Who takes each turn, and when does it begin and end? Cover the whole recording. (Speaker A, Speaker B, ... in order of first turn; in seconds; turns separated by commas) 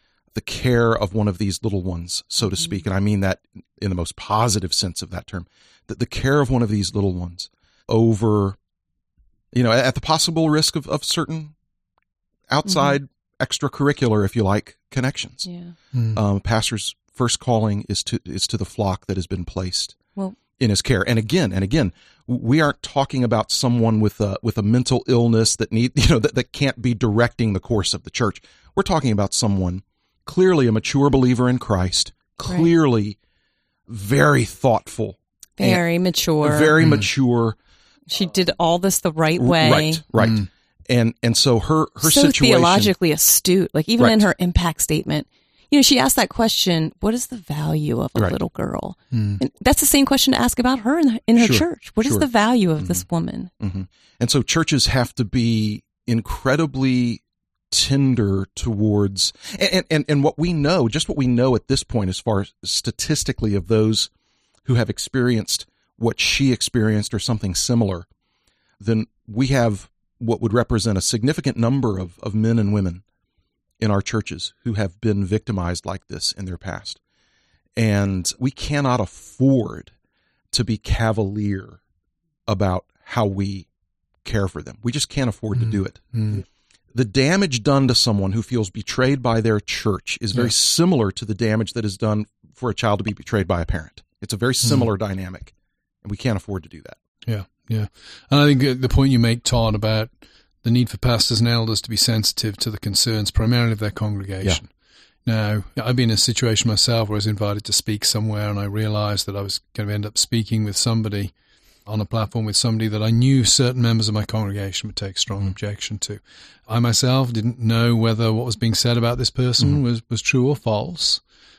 Speaker A: 0.3-8.6, Speaker A: 9.5-11.5, Speaker A: 12.5-15.5, Speaker B: 12.7-13.0, Speaker B: 15.4-15.7, Speaker C: 15.9-16.2, Speaker A: 16.1-19.9, Speaker A: 20.6-33.2, Speaker A: 33.9-35.8, Speaker B: 35.6-36.8, Speaker A: 36.4-37.6, Speaker C: 36.8-37.1, Speaker B: 38.1-40.0, Speaker A: 39.4-42.9, Speaker C: 40.2-40.5, Speaker B: 42.0-53.5, Speaker A: 44.0-44.2, Speaker C: 49.1-49.4, Speaker A: 51.4-52.3, Speaker A: 52.8-53.0, Speaker A: 53.6-64.1, Speaker A: 64.7-68.1, Speaker A: 68.8-73.0, Speaker A: 73.8-77.0, Speaker A: 77.8-79.9, Speaker A: 80.5-81.8, Speaker A: 82.5-83.7, Speaker A: 84.2-86.3, Speaker C: 85.5-86.4, Speaker A: 86.9-95.5, Speaker A: 96.0-97.0, Speaker C: 97.2-104.7, Speaker C: 105.2-111.3, Speaker C: 111.9-121.2